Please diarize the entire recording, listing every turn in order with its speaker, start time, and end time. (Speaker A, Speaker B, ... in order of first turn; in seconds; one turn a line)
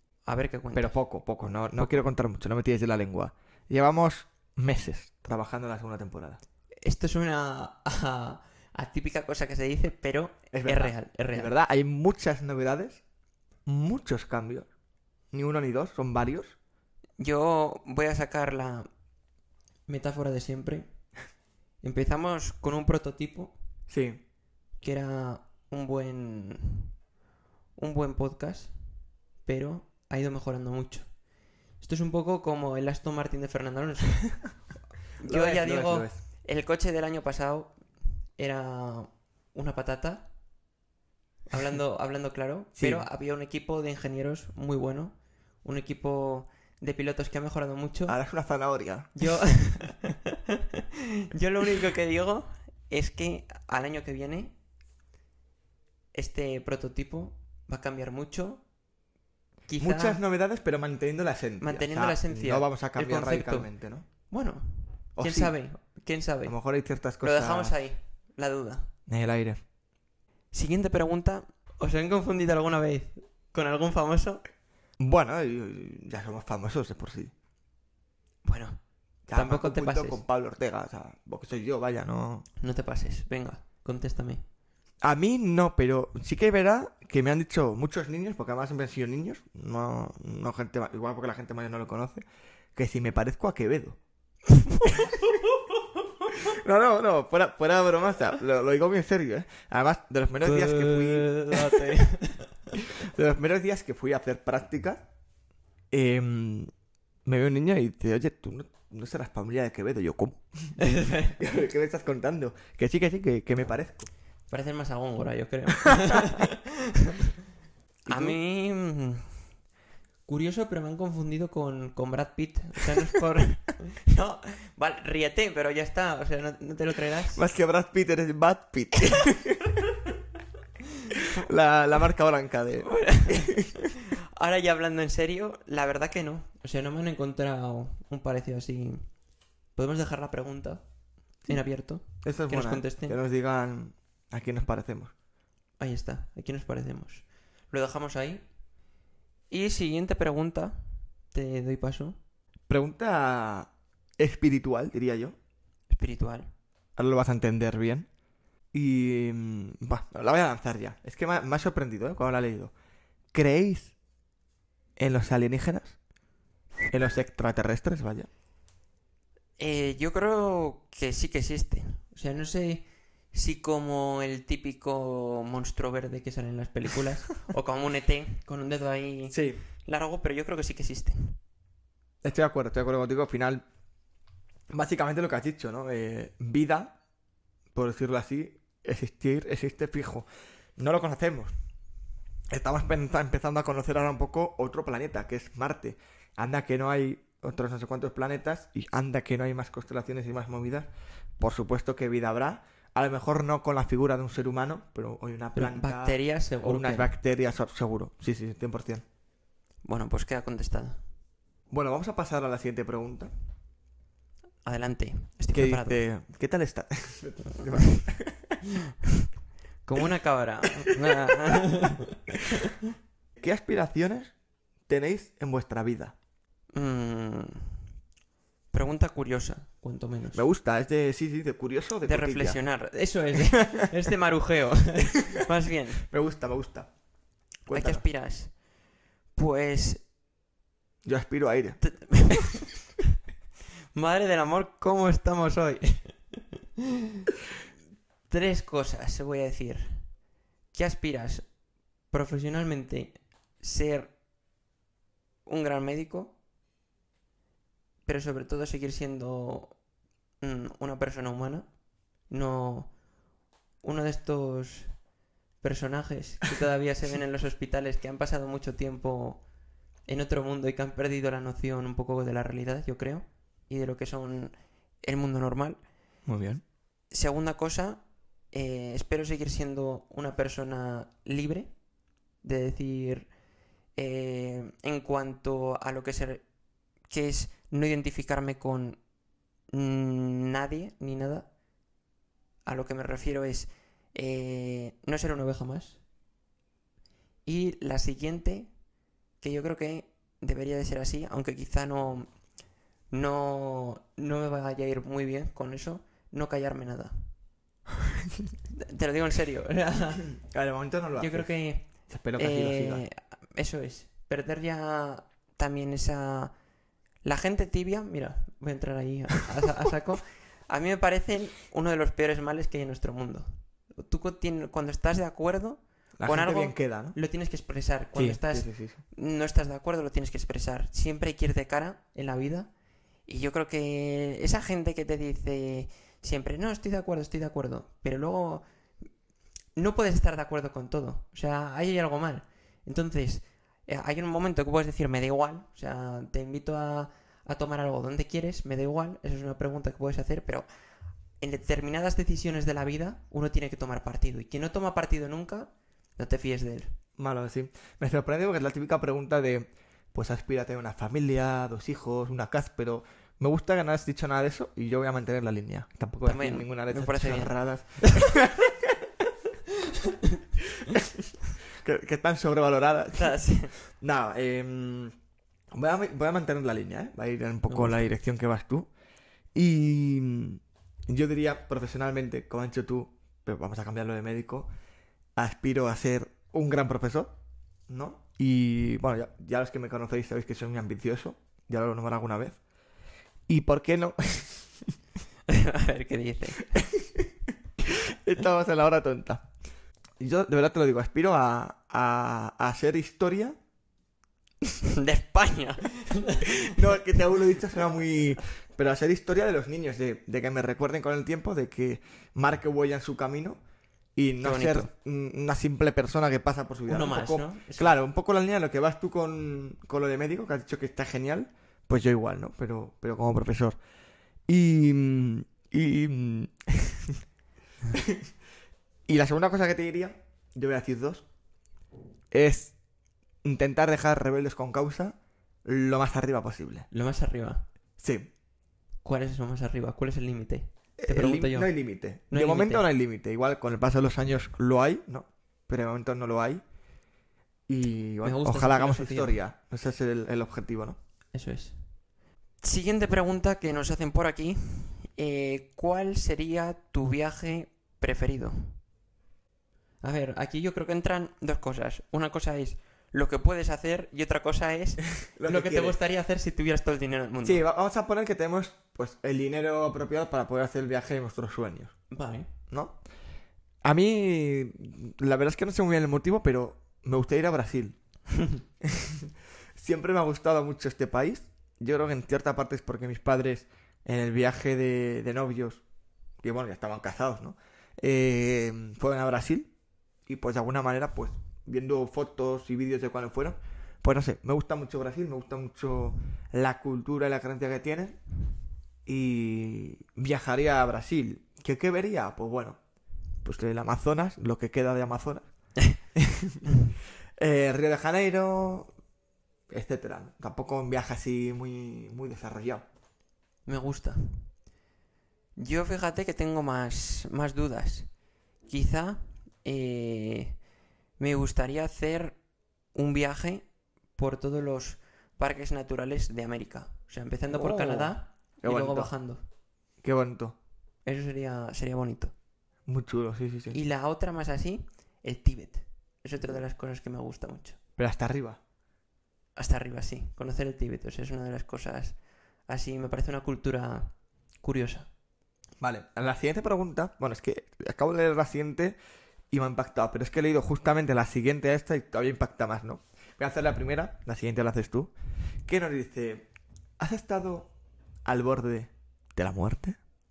Speaker A: 0.3-1.0
Speaker B: 0.8-6.4
Speaker A: 1.8-2.1
Speaker A: 6.8-11.5
Speaker B: 10.5-13.0
Speaker B: 13.7-14.7
Speaker B: 15.3-16.6
Speaker A: 17.2-18.9
Speaker A: 19.9-20.9
Speaker A: 21.8-23.6
Speaker B: 23.9-24.2
Speaker A: 24.8-26.9
Speaker A: 27.8-31.1
Speaker A: 31.8-34.3
Speaker A: 35.2-37.8
Speaker B: 35.2-36.2
Speaker A: 38.4-40.3
Speaker A: 41.5-48.2
Speaker B: 42.8-43.1
Speaker B: 48.1-49.2
Speaker A: 49.2-50.6
Speaker A: 51.3-54.5
Speaker A: 56.1-58.6
Speaker A: 59.7-60.2
Speaker B: 59.8-64.0
Speaker A: 61.6-63.7
Speaker A: 64.3-66.5
Speaker B: 65.2-65.5
Speaker B: 66.5-67.8
Speaker A: 67.2-68.9
Speaker B: 69.1-69.6
Speaker A: 70.5-74.4
Speaker B: 75.0-77.3
Speaker A: 78.5-78.8
Speaker B: 79.3-82.5
Speaker A: 79.3-80.2
Speaker A: 82.6-84.4
Speaker B: 85.0-94.0
Speaker A: 94.6-95.4
Speaker B: 94.8-95.2
Speaker B: 96.3-102.0
Speaker A: 100.4-102.8
Speaker B: 102.7-105.0
Speaker B: 105.9-106.7
Speaker B: 107.2-110.8
Speaker A: 110.8-111.4
Speaker B: 111.3-114.1
Speaker A: 114.5-117.3
Speaker B: 115.8-116.4
Speaker B: 118.1-118.4
Speaker A: 118.1-119.3
Speaker A: 120.3-127.5
Speaker B: 127.3-129.9
Speaker B: 131.2-133.9
Speaker A: 132.8-139.1
Speaker A: 139.8-140.8
Speaker A: 141.5-143.2
Speaker B: 142.2-145.1
Speaker A: 145.8-148.5
Speaker A: 149.5-152.2
Speaker B: 152.7-155.4
Speaker A: 155.9-156.5
Speaker B: 157.0-158.1
Speaker B: 158.7-162.7
Speaker B: 163.3-163.9
Speaker B: 165.0-166.0
Speaker B: 166.9-168.3
Speaker A: 169.6-181.4
Speaker B: 179.3-179.6
Speaker B: 182.2-183.7
Speaker B: 184.7-186.9
Speaker B: 187.7-190.3
Speaker B: 190.8-191.5
Speaker B: 192.5-209.1
Speaker A: 205.6-207.2
Speaker A: 209.8-211.0
Speaker B: 211.7-213.3
Speaker A: 214.7-216.0
Speaker B: 215.5-218.6
Speaker A: 219.8-222.7
Speaker B: 220.9-221.3
Speaker B: 223.4-224.3
Speaker B: 224.9-226.1
Speaker A: 226.7-227.8
Speaker A: 228.7-230.4
Speaker B: 230.3-232.6
Speaker A: 232.0-236.1
Speaker B: 233.4-233.8
Speaker B: 236.0-236.9
Speaker B: 237.7-238.1
Speaker A: 237.7-238.5
Speaker A: 239.3-240.0
Speaker B: 241.0-242.6
Speaker A: 241.8-242.7
Speaker A: 243.9-246.6
Speaker A: 248.3-250.1
Speaker A: 250.7-251.5
Speaker A: 252.1-254.1
Speaker A: 255.5-256.3
Speaker A: 258.1-259.8
Speaker A: 260.4-261.7
Speaker A: 262.3-262.9
Speaker A: 263.8-264.9
Speaker A: 265.6-269.4
Speaker A: 270.1-275.8
Speaker B: 276.3-276.6
Speaker A: 277.1-281.7
Speaker A: 282.4-283.3
Speaker A: 283.9-286.4
Speaker A: 287.1-289.0
Speaker A: 289.7-291.5
Speaker A: 292.7-296.0
Speaker A: 297.5-298.7
Speaker A: 299.4-302.3
Speaker A: 303.1-307.3
Speaker A: 308.7-310.3
Speaker B: 310.4-311.5
Speaker A: 311.2-316.5
Speaker B: 312.1-313.0
Speaker A: 317.2-332.7
Speaker B: 326.2-327.2
Speaker B: 328.1-329.0
Speaker A: 333.3-338.6
Speaker A: 339.8-350.6
Speaker A: 351.4-356.9
Speaker B: 357.2-369.0
Speaker A: 366.2-368.2
Speaker B: 370.8-373.4
Speaker A: 373.2-373.8
Speaker B: 373.9-375.1
Speaker B: 375.7-378.9
Speaker A: 377.7-378.1
Speaker B: 379.5-384.7
Speaker B: 385.4-387.4
Speaker B: 387.9-392.6
Speaker B: 393.5-394.9
Speaker A: 395.5-396.9
Speaker B: 396.8-397.3
Speaker B: 397.8-399.5
Speaker B: 400.2-403.6
Speaker A: 404.9-406.8
Speaker B: 406.5-413.6
Speaker B: 414.2-423.8
Speaker A: 414.4-414.9
Speaker A: 416.9-418.0
Speaker B: 424.5-427.2
Speaker B: 427.9-428.3
Speaker B: 429.1-431.2
Speaker B: 432.3-432.8
Speaker B: 433.4-436.9
Speaker A: 436.9-437.6
Speaker B: 438.0-438.3
Speaker A: 439.0-441.7
Speaker B: 441.0-446.6
Speaker A: 442.3-442.9
Speaker B: 447.7-451.0
Speaker A: 448.2-449.4
Speaker A: 451.3-451.8
Speaker A: 452.6-458.8
Speaker A: 460.0-467.6
Speaker B: 465.4-466.0
Speaker B: 467.4-472.0
Speaker A: 472.1-472.5
Speaker B: 472.7-473.0
Speaker B: 473.8-478.0
Speaker B: 478.8-485.8
Speaker B: 486.4-489.7
Speaker B: 490.3-498.2
Speaker B: 499.1-502.8
Speaker B: 503.4-505.5
Speaker B: 506.1-506.6
Speaker B: 507.4-508.9
Speaker B: 509.7-512.9
Speaker A: 513.7-514.5
Speaker A: 515.6-518.1
Speaker A: 518.7-520.6
Speaker A: 521.2-522.4
Speaker A: 522.9-529.4
Speaker B: 527.5-529.1
Speaker B: 530.0-530.6
Speaker A: 531.0-532.3
Speaker B: 532.9-533.8
Speaker A: 533.7-537.8
Speaker B: 538.0-538.6
Speaker A: 539.6-542.2
Speaker A: 542.7-545.1
Speaker B: 545.8-549.0
Speaker B: 549.5-555.1
Speaker B: 555.7-556.5
Speaker B: 557.0-557.7
Speaker B: 558.2-560.0